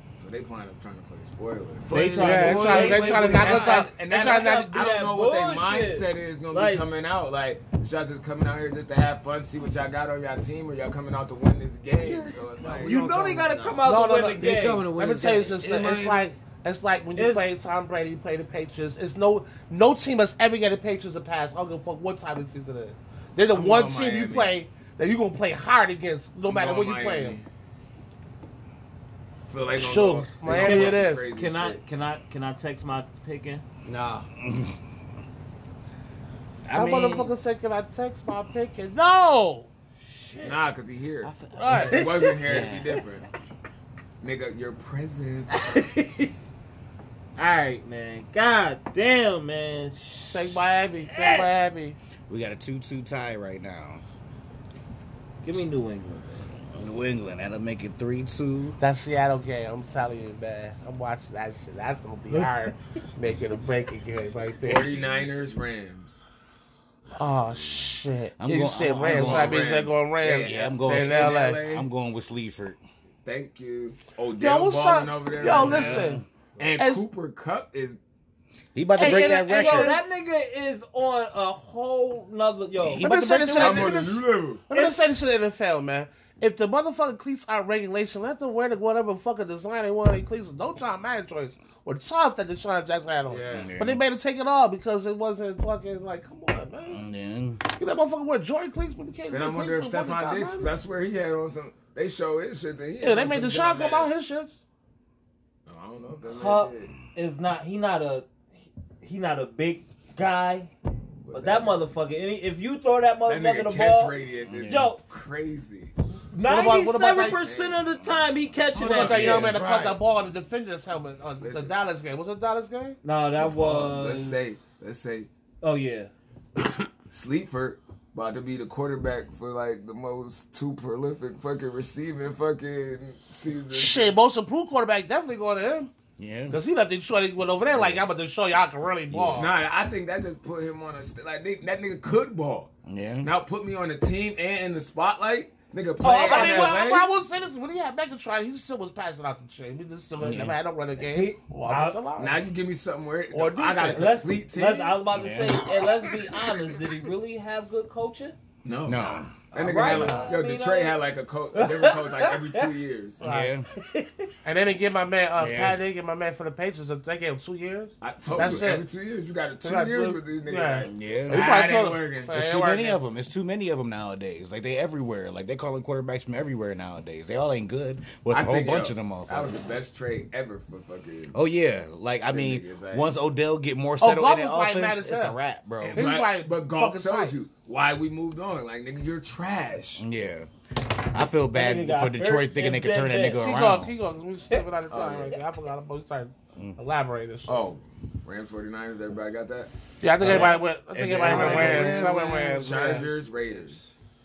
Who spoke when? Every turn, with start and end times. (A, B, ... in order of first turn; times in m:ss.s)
0:00.2-0:13.0 A
0:01.9-0:03.8 B
0:01.9-0:04.8 C
0:02.1-0:06.8 D
0:12.6-0:13.8 B
0:12.8-0:14.8 D
0:13.8-0:27.4 C
0:14.4-0:16.3 B
0:17.2-0:17.5 D
0:23.5-0:24.6 A
0:26.5-0:27.4 A
0:29.5-0:31.8 A
0:29.7-0:31.3 C
0:30.4-0:33.6 D
0:33.8-0:34.3 B
0:34.4-0:34.8 E
0:36.6-0:37.3 E
0:36.7-0:39.7 C
0:40.0-0:40.6 D
0:40.4-0:43.2 A
0:41.2-0:42.9 E
0:41.6-0:42.1 C
0:41.8-0:42.8 D
0:44.2-0:45.6 A
0:45.5-0:46.3 D
0:47.4-0:50.6 D
0:50.3-0:52.0 C
0:52.3-0:54.0 E
0:55.4-0:56.5 D
0:56.7-0:58.8 E
0:58.8-1:05.0 C
1:04.6-1:06.2 A
1:07.1-1:11.6 C
1:08.4-1:09.7 E
1:09.1-1:11.9 A
1:10.4-1:12.8 E
1:13.2-1:18.0 A
1:14.4-1:16.2 C
1:15.4-1:16.2 E
1:16.8-1:17.1 C
1:18.7-1:20.0 E
1:19.0-1:20.0 C
1:19.0-1:23.0 D
1:22.8-1:24.0 E
1:23.0-1:37.0 C
1:23.5-1:24.7 A
1:24.7-1:25.0 D
1:33.3-1:33.7 B
1:33.5-1:34.0 E
1:36.9-1:37.6 E
1:37.7-1:40.8 C
1:39.3-1:44.1 A
1:43.0-1:44.6 C
1:45.6-1:46.9 A
1:46.2-1:48.3 D
1:49.0-1:50.7 D
1:51.2-1:51.8 A
1:51.3-1:55.0 D
1:53.2-1:55.9 A
1:54.5-1:54.9 E
1:56.3-1:59.6 D
1:56.4-1:57.4 C
1:57.3-1:58.1 A
1:58.7-1:59.5 A
1:58.7-2:03.0 C
1:59.4-2:00.0 B
2:01.4-2:01.7 A
2:03.0-2:04.4 D
2:03.4-2:05.3 A
2:05.6-2:06.1 D
2:07.1-2:14.1 A
2:13.7-2:15.9 C
2:16.2-2:16.6 E
2:16.5-2:19.5 C
2:19.1-2:19.5 E
2:19.3-2:27.0 A
2:22.8-2:23.3 E
2:26.0-2:27.1 D
2:26.2-2:32.4 C
2:30.2-2:30.6 E
2:31.0-2:32.0 D
2:32.1-2:35.0 A
2:33.3-2:34.1 C
2:33.8-2:38.4 D
2:35.1-2:35.7 E
2:38.6-2:43.2 A
2:38.8-2:39.3 E
2:39.5-2:41.0 D
2:39.7-2:40.3 C
2:41.5-2:42.7 D
2:43.2-2:43.5 C
2:43.2-2:43.7 E
2:43.7-2:44.3 D
2:44.4-2:48.9 C
2:45.4-2:45.8 E
2:48.0-2:52.3 A
2:49.6-2:53.0 C
2:50.9-2:51.5 E
2:52.3-2:59.6 E
2:58.3-3:01.4 A
3:01.3-3:06.1 E
3:02.3-3:03.1 A
3:04.0-3:05.4 C
3:05.8-3:10.0 A
3:05.9-3:07.4 C
3:10.0-3:13.9 E
3:11.5-3:13.4 D
3:13.4-3:17.7 C
3:14.9-3:15.4 A
3:17.5-3:19.7 A
3:20.0-3:23.0 C
3:20.2-3:22.2 E
3:21.2-3:23.6 B
3:21.3-3:23.9 A